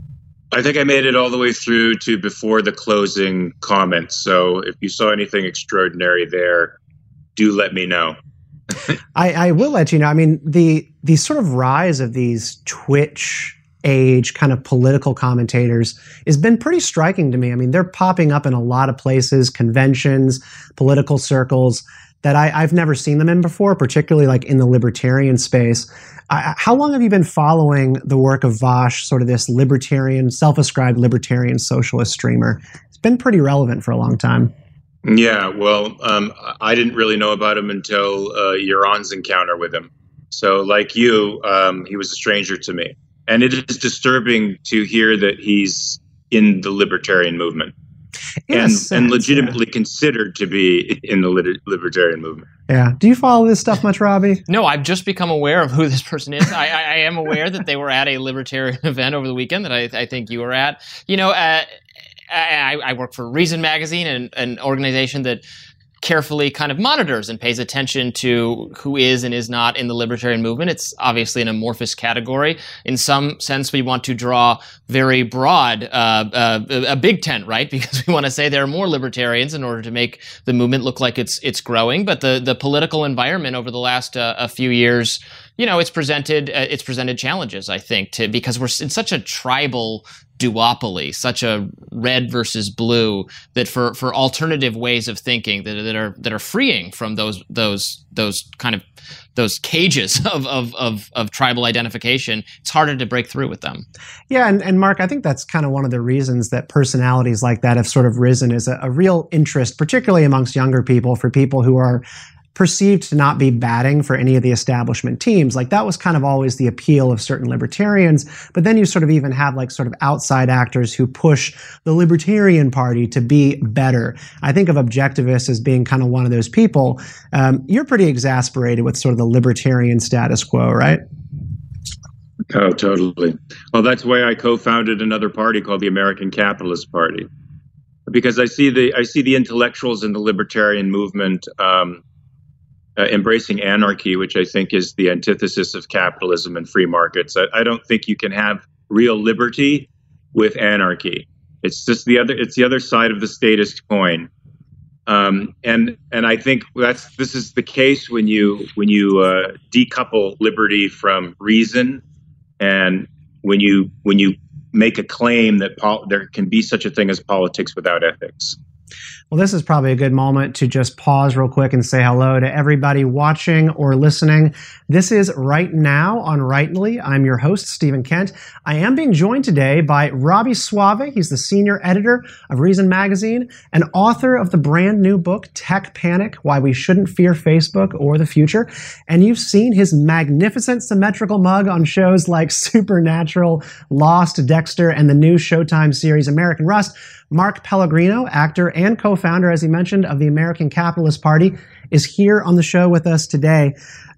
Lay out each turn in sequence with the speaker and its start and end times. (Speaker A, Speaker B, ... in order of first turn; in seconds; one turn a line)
Speaker A: 0.5-6.8
Speaker A: 7.3-8.2
Speaker B: 9.1-34.5
Speaker A: 35.0-47.7
Speaker B: 48.5-49.6
Speaker A: 48.5-52.5
Speaker B: 52.7-54.4
Speaker C: 54.5-61.7
Speaker C: 62.3-65.4
Speaker C: 66.0-98.8
Speaker C: 99.3-103.8
Speaker B: 104.3-112.0
Speaker B: 112.5-131.0
Speaker A: 132.5-137.3
Speaker A: 138.1-142.0
Speaker A: 143.0-154.3
Speaker A: 155.1-162.0
Speaker A: 162.6-168.6
Speaker B: 169.3-203.7